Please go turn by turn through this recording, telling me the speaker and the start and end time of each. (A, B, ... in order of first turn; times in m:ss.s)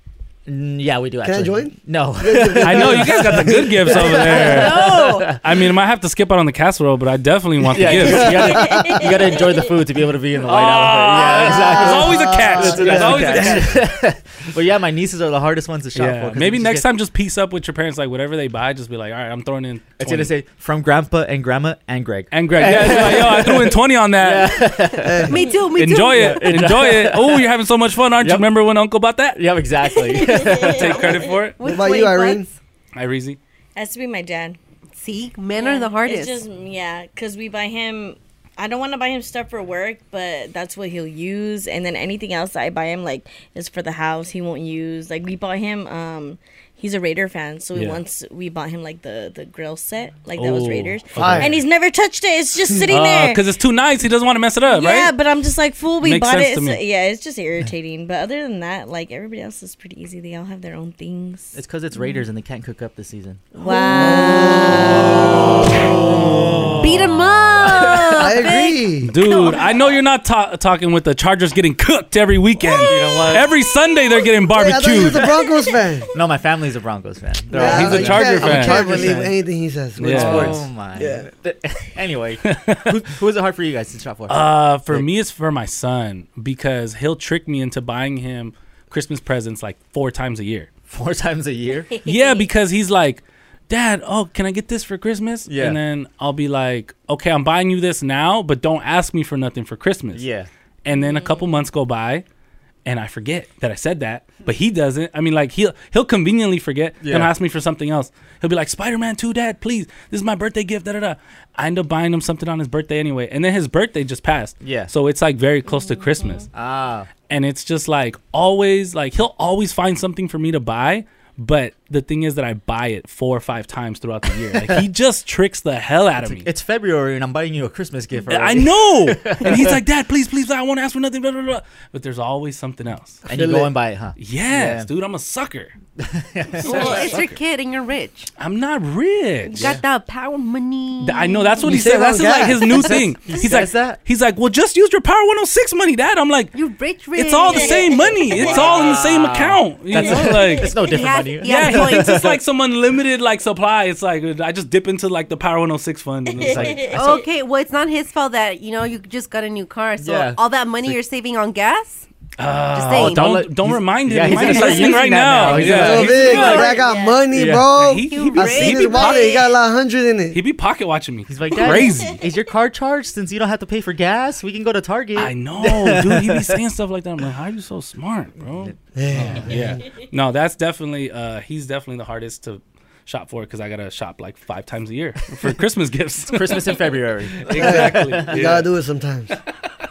0:00.5-0:05.5 A
0:01.2-0:04.2 B
0:02.6-0:08.6 C
0:04.4-0:05.4 D
0:07.6-0:16.9 A
0:08.6-0:09.0 B
0:08.6-0:09.8 E
0:10.5-0:13.7 C
0:11.2-0:13.8 B
0:16.0-0:20.3 C
0:20.0-0:25.3 A
0:22.3-0:24.9 C
0:25.0-0:25.5 B
0:25.3-0:26.5 D
0:25.8-0:29.4 C
0:26.1-0:27.5 A
0:28.2-0:28.5 A
0:29.3-0:31.2 A
0:29.9-0:31.4 E
0:30.6-0:31.6 C
0:31.6-0:32.5 D
0:31.6-0:32.5 B
0:33.0-0:33.4 C
0:33.8-0:34.6 E
0:35.0-0:36.4 D
0:35.5-0:53.4 E
0:47.7-0:48.0 C
0:50.4-0:51.6 C
0:51.2-0:51.6 B
0:52.9-0:55.2 C
0:54.7-1:01.6 E
0:56.0-0:56.8 C
1:01.5-1:03.5 A
1:03.6-1:06.7 B
1:03.6-1:05.7 E
1:06.0-1:06.8 A
1:06.6-1:07.1 C
1:06.8-1:09.7 D
1:07.6-1:08.2 A
1:08.2-1:09.1 B
1:09.0-1:15.4 C
1:12.7-1:13.3 D
1:12.8-1:13.5 A
1:14.5-1:16.1 B
1:16.1-1:19.3 A
1:17.5-1:19.4 C
1:17.5-1:21.3 B
1:20.0-1:20.6 C
1:20.0-1:25.1 A
1:22.4-1:23.0 C
1:24.3-1:30.7 C
1:30.9-1:31.9 A
1:31.9-1:32.5 E
1:32.0-1:40.2 C
1:35.5-1:35.8 A
1:40.1-1:40.5 A
1:40.8-1:42.2 C
1:40.9-1:41.6 E
1:42.8-1:56.5 C
1:47.0-1:47.3 A
1:54.6-1:54.9 A
1:55.7-1:56.5 E
1:56.5-1:57.1 A
1:57.3-2:06.5 C
2:04.5-2:04.9 A
2:06.2-2:09.8 A
2:08.3-2:13.2 C
2:13.3-2:14.9 A
2:13.3-2:13.7 B
2:14.2-2:15.7 C
2:16.0-2:17.4 A
2:16.6-2:18.3 D
2:16.6-2:17.2 C
2:18.4-2:19.8 C
2:19.6-2:21.6 D
2:21.0-2:26.5 C
2:21.6-2:23.0 B
2:22.6-2:24.0 A
2:26.5-2:27.9 D
2:27.1-2:30.7 C
2:27.5-2:29.0 E
2:28.4-2:32.4 A
2:30.7-2:32.2 D
2:31.4-2:37.0 C
2:36.3-2:37.2 E
2:36.4-2:36.9 A
2:36.9-2:42.0 D
2:40.0-2:41.0 A
2:42.4-2:46.8 C
2:42.7-2:43.2 D
2:42.9-2:46.2 A
2:44.5-2:44.8 D
2:45.8-2:50.4 B
2:46.2-2:46.7 D
2:46.2-2:47.3 E
2:47.4-2:47.7 A
2:47.7-2:49.5 C
2:48.1-2:49.4 D
2:50.3-2:52.2 C
2:51.3-2:56.6 A
2:51.8-2:52.2 E
2:55.2-3:08.7 C
2:58.4-2:59.4 A
2:59.0-2:59.8 B
3:06.3-3:08.5 A
3:07.6-3:09.3 B